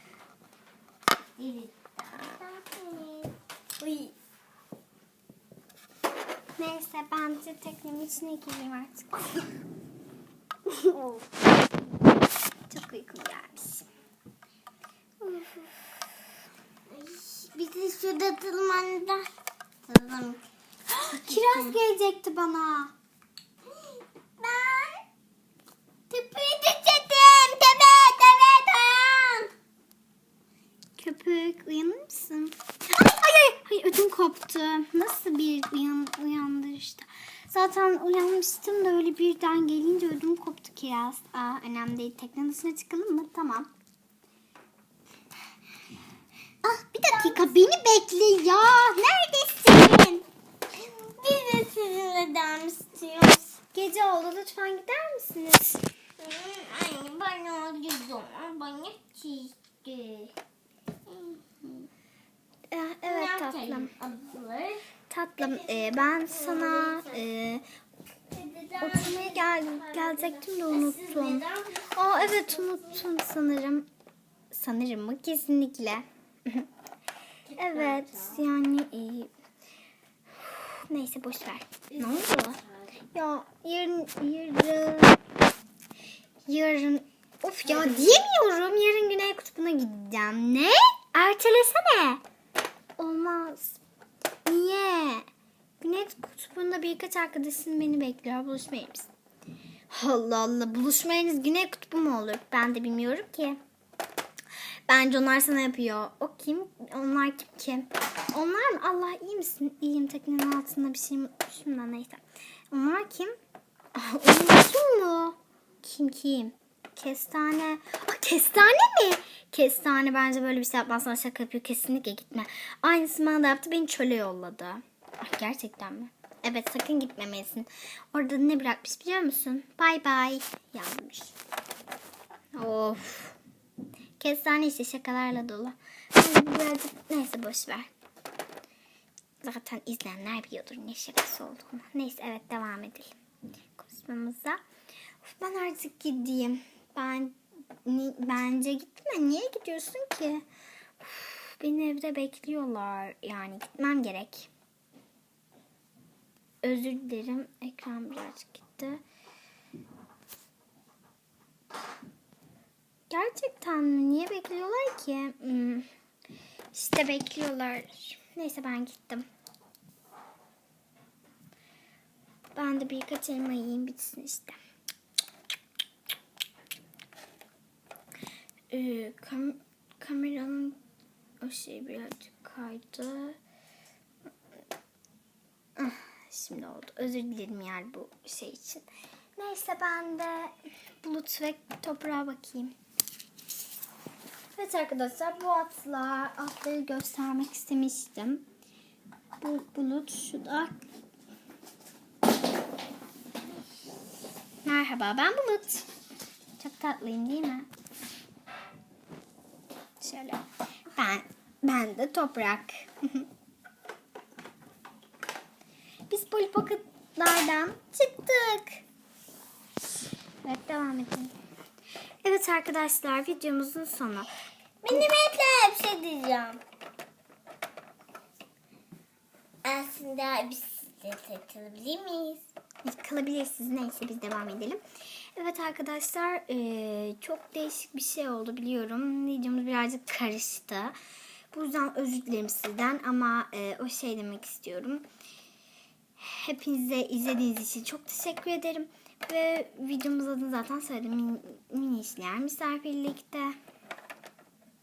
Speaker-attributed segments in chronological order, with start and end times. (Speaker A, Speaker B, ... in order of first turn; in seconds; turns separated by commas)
Speaker A: 1.4-4.1, Speaker B: 6.6-9.5, Speaker A: 10.8-11.2, Speaker B: 12.7-13.8, Speaker B: 15.2-15.7, Speaker A: 16.9-19.3, Speaker A: 19.8-21.8, Speaker B: 21.1-22.9, Speaker A: 23.7-25.0, Speaker A: 26.1-29.5, Speaker B: 31.0-43.7, Speaker B: 46.6-50.2, Speaker A: 47.1-47.5, Speaker A: 50.7-53.6, Speaker B: 53.7-55.9, Speaker A: 56.2-60.3, Speaker A: 61.1-61.9, Speaker B: 62.7-63.9, Speaker A: 63.0-64.8, Speaker B: 65.1-67.6, Speaker A: 65.4-67.2, Speaker A: 68.3-73.0, Speaker B: 68.8-71.4, Speaker B: 71.9-73.9, Speaker B: 74.5-76.7, Speaker A: 77.5-78.5, Speaker B: 77.6-79.3, Speaker B: 80.4-82.6, Speaker A: 81.9-82.9, Speaker B: 83.1-85.2, Speaker B: 86.5-92.2, Speaker A: 87.6-88.2, Speaker B: 93.0-93.8, Speaker B: 94.4-95.2, Speaker B: 95.8-99.1, Speaker B: 99.9-103.6, Speaker B: 104.9-113.3, Speaker B: 113.9-131.3, Speaker B: 132.6-133.4, Speaker B: 134.2-137.9, Speaker B: 139.4-143.1, Speaker B: 143.8-144.6, Speaker B: 145.2-150.4, Speaker B: 151.0-154.5, Speaker B: 156.6-159.0, Speaker B: 163.1-165.9, Speaker B: 166.7-169.2, Speaker B: 172.5-174.6, Speaker B: 178.7-180.8, Speaker B: 181.4-183.4, Speaker B: 185.8-188.8, Speaker B: 189.4-192.7, Speaker B: 194.6-198.4, Speaker B: 199.4-200.8, Speaker B: 204.6-205.9, Speaker B: 206.6-207.7, Speaker B: 210.0-210.4, Speaker B: 210.9-213.3, Speaker B: 216.1-218.8, Speaker B: 220.4-221.3, Speaker B: 222.2-224.3, Speaker A: 224.8-226.6, Speaker A: 229.6-232.5, Speaker B: 232.8-234.8, Speaker B: 235.3-240.9, Speaker B: 241.5-245.1, Speaker B: 246.2-253.6